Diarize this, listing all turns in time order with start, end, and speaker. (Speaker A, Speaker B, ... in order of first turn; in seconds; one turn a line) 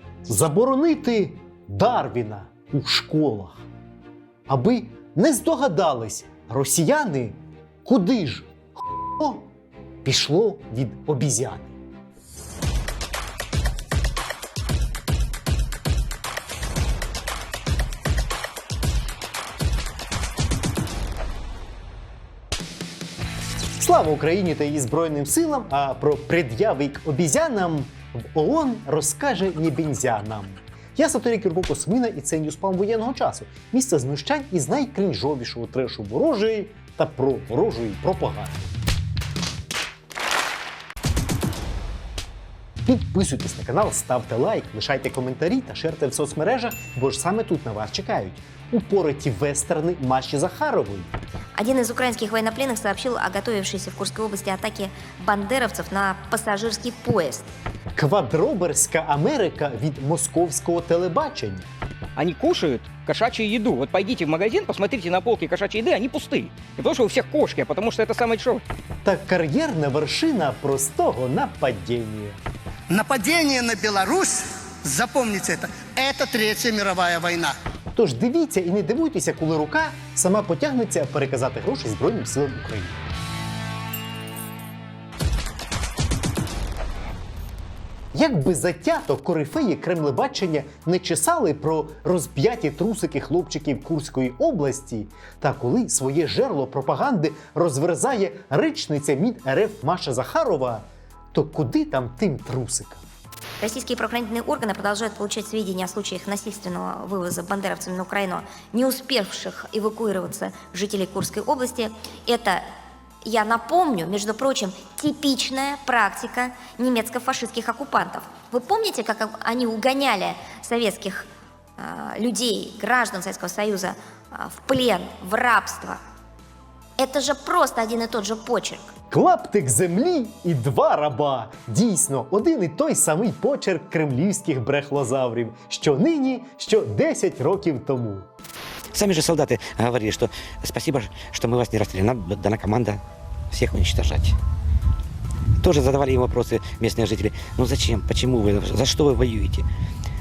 Speaker A: 0.3-3.6
Speaker A: 4.5-9.5
Speaker A: 10.1-11.8
Speaker A: 23.8-38.7
Speaker A: 42.9-51.1
Speaker B: 51.6-57.5
Speaker A: 58.0-61.7
Speaker C: 62.2-68.6
Speaker A: 69.0-72.4
Speaker D: 72.9-77.6
Speaker A: 78.0-83.0
Speaker A: 88.1-103.0
Speaker B: 103.6-112.7
Speaker B: 113.2-121.3
Speaker B: 121.8-126.0
Speaker B: 127.0-128.9
Speaker A: 129.1-138.3
Speaker E: 138.9-144.4
Speaker E: 145.6-149.7